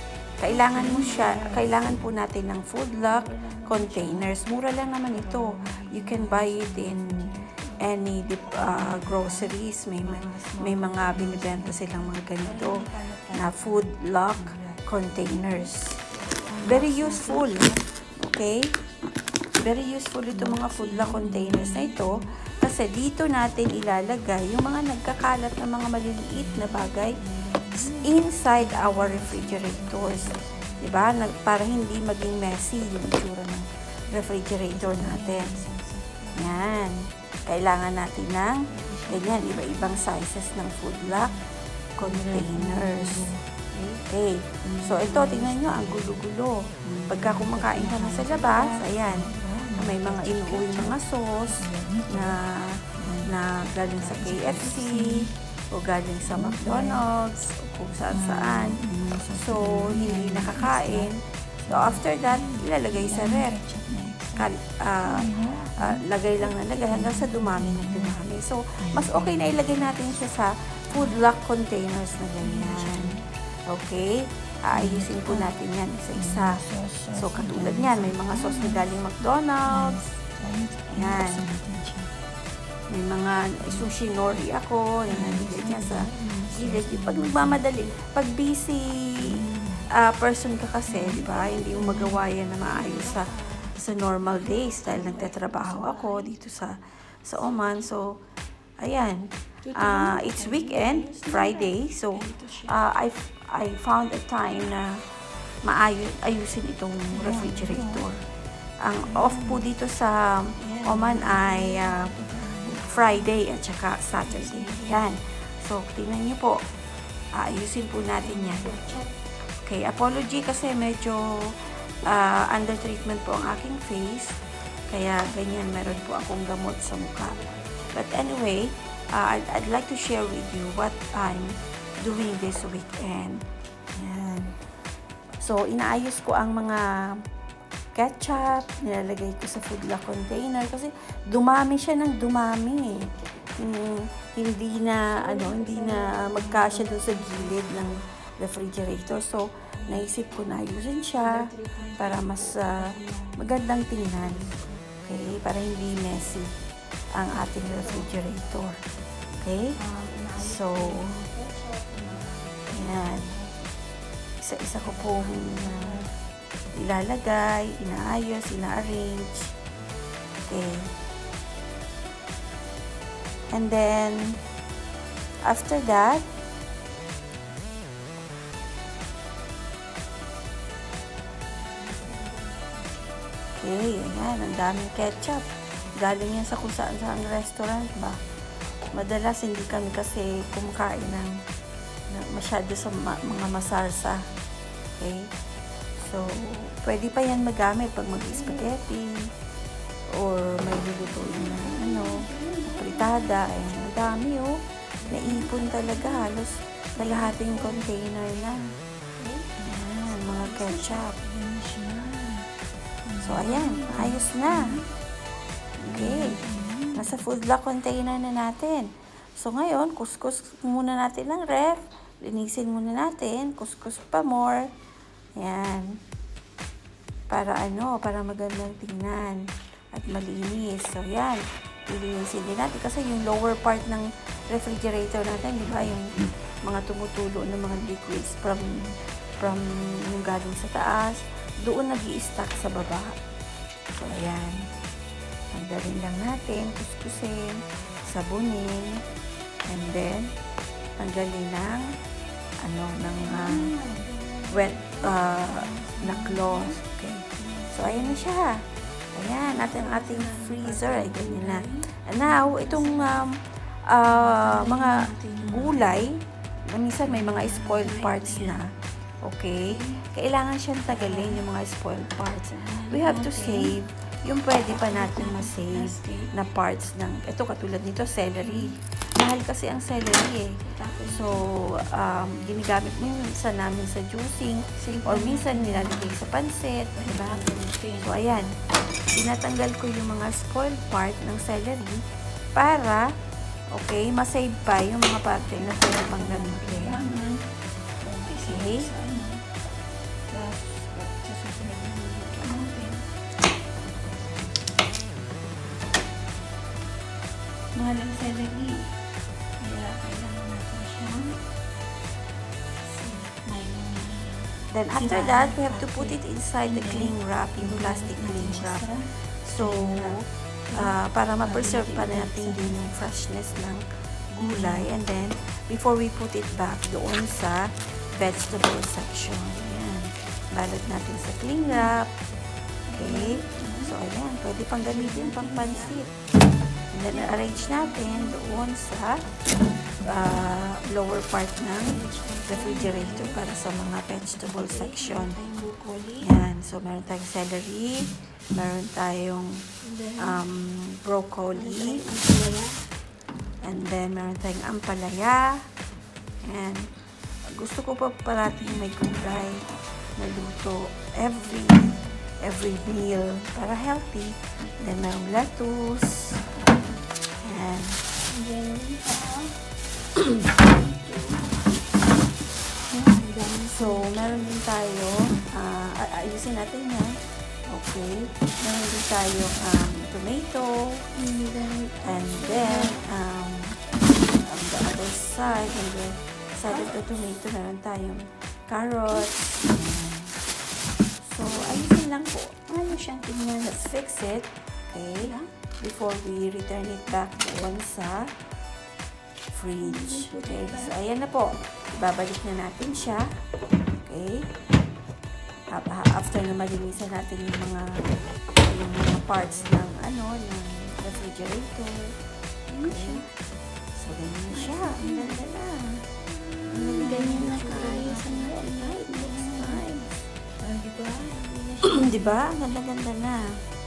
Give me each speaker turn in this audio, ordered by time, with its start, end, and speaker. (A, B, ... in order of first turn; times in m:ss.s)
0:00.4-0:16.0 A
0:00.4-0:02.1 B
0:03.0-0:04.3 B
0:05.1-0:07.9 B
0:08.5-0:17.7 B
0:16.6-0:18.8 A
0:19.6-0:27.2 A
0:20.3-0:22.4 B
0:26.3-0:31.1 B
0:27.7-0:35.5 A
0:34.1-0:36.6 B
0:36.4-0:41.3 A
0:38.7-0:40.0 B
0:41.0-0:41.5 B
0:42.0-0:43.3 A
0:42.0-0:44.0 B
0:44.1-1:03.6 A
0:44.6-0:46.2 B
0:46.8-0:52.4 B
0:52.9-0:53.3 B
0:53.8-0:55.3 B
0:56.2-0:57.0 B
0:58.1-1:01.1 B
1:01.6-1:04.5 B
1:04.4-1:16.6 A
1:05.0-1:08.2 B
1:08.8-1:10.2 B
1:10.9-1:11.2 B
1:12.4-1:13.3 B
1:14.7-1:15.6 B
1:16.1-1:19.0 B
1:17.1-1:20.0 A
1:19.6-1:22.1 B
1:20.9-1:21.5 A
1:22.9-1:29.4 A
1:23.6-1:23.9 B
1:25.1-1:27.9 B
1:29.2-1:29.9 B
1:29.9-1:38.2 A
1:30.9-1:36.3 B
1:38.8-1:45.0 A
1:39.6-1:42.8 B
1:45.6-1:48.3 A
1:47.1-1:48.0 B
1:48.8-1:56.6 A
1:49.0-1:49.6 B
1:50.6-1:53.3 B
1:54.2-1:55.0 B
1:57.4-1:58.8 A
1:58.2-1:59.1 B
1:59.5-2:13.4 A
2:07.4-2:07.9 B
2:14.0-2:14.6 A
2:15.4-2:17.2 A
2:17.9-2:34.5 A
2:25.1-2:28.0 B
2:29.8-2:30.1 B
2:31.2-2:33.6 B
2:34.2-2:34.8 B
2:35.0-2:36.5 A
2:37.1-2:38.8 A
2:37.6-2:38.2 B
2:39.4-2:39.7 A
2:39.8-2:43.6 B
2:40.4-2:41.2 A
2:42.7-2:43.3 A
2:44.4-2:45.9 A
2:44.8-2:46.2 B
2:46.7-2:49.5 A
2:50.5-2:50.9 A
2:53.5-2:54.5 A
2:55.4-2:56.3 A
3:01.5-3:03.2 B
3:03.5-3:08.2 A
3:08.9-3:11.4 A
3:12.1-3:14.3 A
3:15.0-3:15.3 A
3:16.0-3:19.2 A
3:18.1-3:18.7 B
3:20.1-3:28.7 A
3:21.0-3:24.0 B
3:25.0-3:26.3 B
3:26.9-3:27.9 B
3:29.2-3:32.5 B
3:29.6-3:31.2 A
3:33.0-3:34.9 B
3:33.2-3:34.8 A
3:35.8-3:36.4 A
3:35.9-3:37.2 B
3:36.9-3:44.7 A
3:45.4-3:46.0 A
3:47.3-4:03.2 A
4:04.0-4:04.7 A
4:05.5-4:09.0 A
4:09.7-4:10.3 A
4:11.0-4:11.9 A
4:12.6-4:13.7 A
4:13.0-4:18.2 B
4:14.5-4:52.0 A
4:19.4-4:23.3 B
4:24.0-4:26.1 B
4:27.0-4:28.6 B
4:29.6-4:30.0 B
4:30.9-4:31.4 B
4:32.5-4:33.8 B
4:34.7-4:36.3 B
4:38.4-4:38.8 B
4:40.6-4:41.5 B
4:44.8-4:46.2 B
4:47.0-4:48.5 B
4:52.5-4:53.1 A
4:53.7-4:57.1 A
4:55.5-4:57.5 B
4:58.0-4:59.4 B
4:58.3-4:58.9 A
5:00.2-5:03.0 B
5:07.8-5:08.9 B
5:09.6-5:11.4 B
5:12.8-5:22.8 B
5:14.7-5:32.1 A
5:24.3-5:24.9 B
5:31.7-5:32.0 B
5:32.9-5:33.9 B
5:32.9-5:36.1 A
5:34.8-5:36.1 B
5:36.9-5:45.4 A
5:37.1-5:38.6 B
5:41.8-5:43.4 B
5:44.4-5:46.3 B
5:46.2-5:49.7 A
5:49.8-5:50.4 B
5:50.2-5:52.5 A
5:51.5-5:52.9 B
5:53.6-5:55.6 A
5:56.4-5:56.9 A
5:57.5-6:06.4 A
6:07.2-6:08.0 A
6:08.3-6:09.6 B
6:10.2-6:11.5 B
6:12.8-6:14.2 B
6:13.6-6:21.0 A
6:21.1-6:23.0 B
6:22.0-6:30.4 A
6:26.7-6:27.2 B
6:31.2-6:38.3 A
6:32.8-6:33.3 B
6:35.2-6:35.5 B
6:39.5-6:43.3 A
6:39.8-6:40.9 B
6:44.0-6:44.5 A
6:45.7-6:52.1 A
6:52.7-6:53.3 B
6:52.8-6:53.2 A
6:54.0-6:56.0 A
6:54.5-6:55.4 B
6:56.3-6:59.8 B
6:56.7-7:00.2 A
7:00.6-7:02.3 B
7:01.8-7:03.4 A